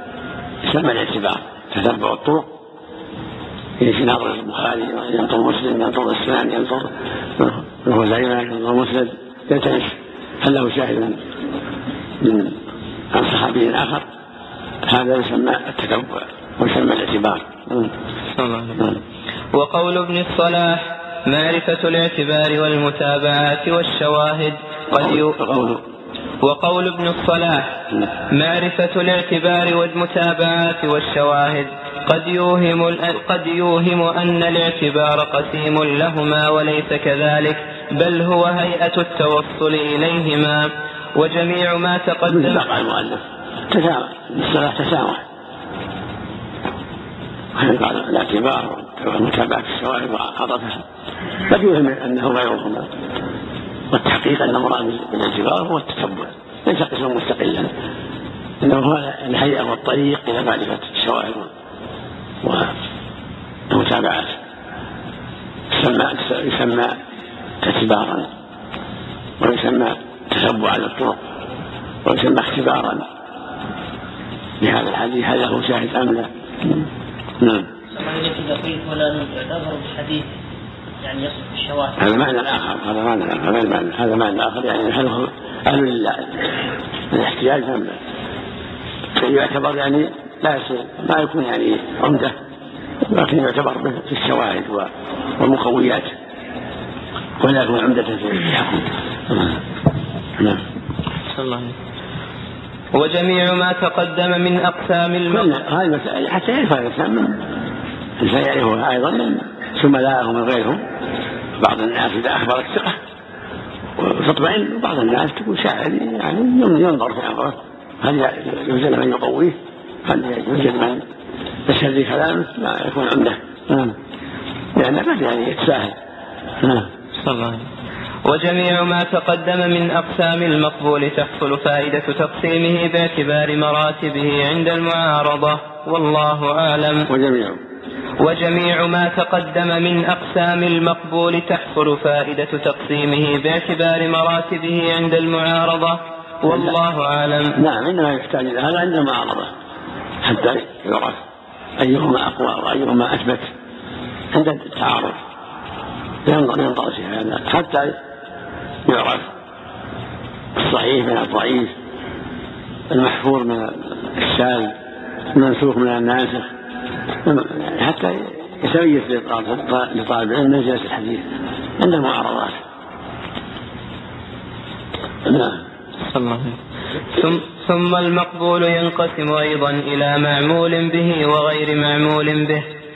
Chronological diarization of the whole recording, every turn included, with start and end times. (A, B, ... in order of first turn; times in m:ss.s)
0:00.6-0:02.5 A
0:03.8-0:11.2 A
0:12.2-0:12.6 A
0:13.1-0:14.0 A
0:14.8-0:17.9 A
0:18.4-0:18.8 B
0:19.5-0:25.3 B
0:25.0-0:25.8 A
0:26.4-0:42.6 B
0:42.3-0:45.2 A
0:47.5-0:50.8 A
0:51.4-0:52.9 A
0:53.9-0:57.7 A
0:58.6-1:01.5 A
1:02.4-1:02.7 A
1:03.7-1:04.4 A
1:05.7-1:07.0 A
1:07.6-1:08.3 A
1:09.4-1:11.2 A
1:12.0-1:13.0 A
1:14.6-1:16.8 A
1:17.4-1:17.7 A
1:17.9-1:20.3 C
1:21.0-1:22.0 C
1:22.0-1:26.5 A
1:27.1-1:28.0 A
1:29.2-1:32.3 A
1:33.0-1:36.1 A
1:37.4-1:39.6 A
1:41.3-1:41.7 B
1:42.9-1:45.5 B
1:45.3-1:47.4 A
1:48.2-1:50.8 A
1:51.6-1:53.0 A
1:54.0-2:01.0 A
2:01.7-2:04.0 A
2:04.8-2:06.0 A
2:06.6-2:06.9 A
2:07.2-2:07.6 B
2:08.2-2:17.1 B
2:17.1-2:17.6 A
2:18.2-2:27.6 B
2:26.5-2:26.7 A
2:27.6-2:29.5 A
2:30.2-2:31.2 A
2:31.8-2:33.5 A
2:34.3-2:35.2 A
2:36.2-2:38.0 A
2:38.8-2:39.3 A
2:40.6-2:41.7 A
2:42.9-2:44.7 A
2:45.3-2:46.5 A
2:47.2-2:51.2 A
2:51.8-2:52.6 A
2:55.2-2:55.6 A
2:56.1-2:56.6 B
2:57.1-3:02.6 B